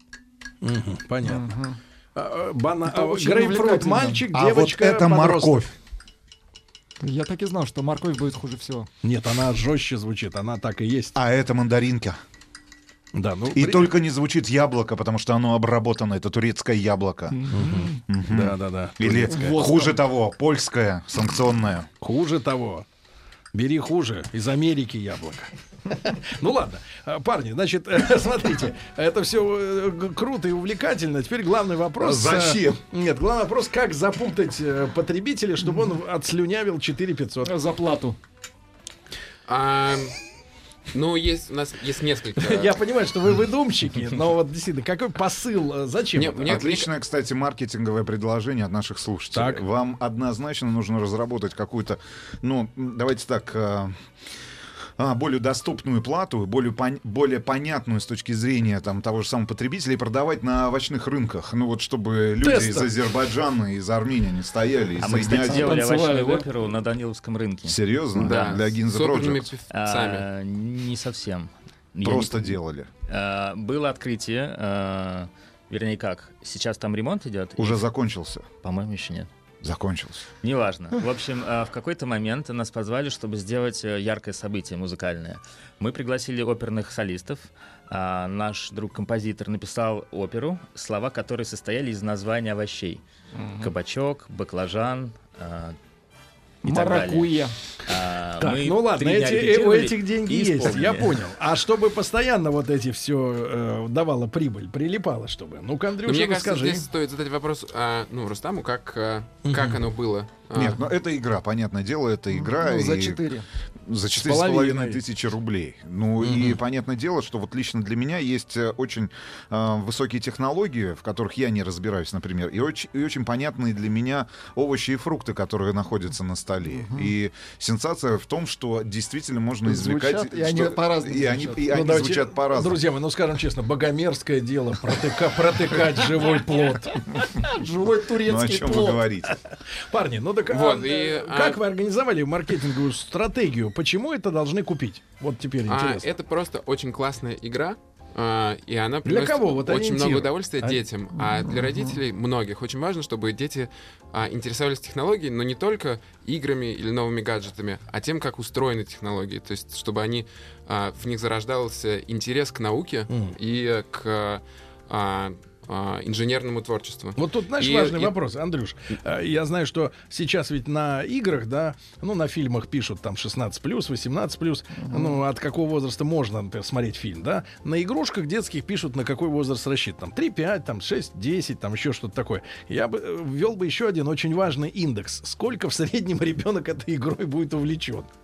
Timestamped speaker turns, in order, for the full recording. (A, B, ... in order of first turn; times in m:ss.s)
0:00.6-0:01.4 A
0:01.2-0:01.8 B
0:02.2-0:05.6 A
0:02.9-0:04.3 B
0:04.3-0:05.8 C
0:07.0-0:08.9 B
0:09.0-0:11.2 A
0:11.2-0:12.2 C
0:13.1-0:13.9 A
0:13.6-0:17.4 C
0:17.3-0:18.0 B
0:17.5-0:19.6 A
0:18.1-0:21.9 C
0:19.3-0:20.0 B
0:22.0-0:22.9 A
0:23.5-0:37.5 A
0:32.0-0:32.8 C
0:37.4-0:38.2 B
0:39.5-0:40.2 D
0:40.9-0:42.7 D
0:42.4-0:46.6 A
0:46.1-0:46.9 D
0:46.5-0:54.0 C
0:49.3-0:49.6 A
0:55.0-1:05.9 C
1:02.4-1:03.0 A
1:05.0-1:08.7 E
1:05.1-1:06.5 B
1:07.7-1:09.5 C
1:08.2-1:10.2 D
1:09.7-1:12.5 E
1:12.0-1:12.9 C
1:13.1-1:17.8 E
1:17.6-1:18.5 C
1:18.6-1:19.3 E
1:19.6-1:20.3 C
1:20.4-1:33.0 E
1:33.3-1:33.7 B
1:33.6-1:35.8 E
1:36.6-1:37.5 B
1:36.6-1:37.3 E
1:37.9-1:41.2 E
1:38.4-1:46.9 A
1:46.0-1:50.8 D
1:49.4-1:49.8 A
1:50.5-1:53.2 C
1:52.3-1:53.5 B
1:53.9-2:12.8 C
1:54.2-1:55.0 A
1:56.2-1:56.6 A
2:06.8-2:07.1 B
2:09.7-2:11.8 B
2:11.7-2:17.2 A
2:17.2-2:19.0 B
2:18.2-2:19.4 C
2:19.3-2:26.1 A
2:20.5-2:21.6 D
2:25.7-2:48.1 D
2:29.0-2:30.8 A
2:31.3-2:31.9 B
2:43.1-2:43.4 A
2:47.2-3:08.1 A
2:54.9-2:55.2 B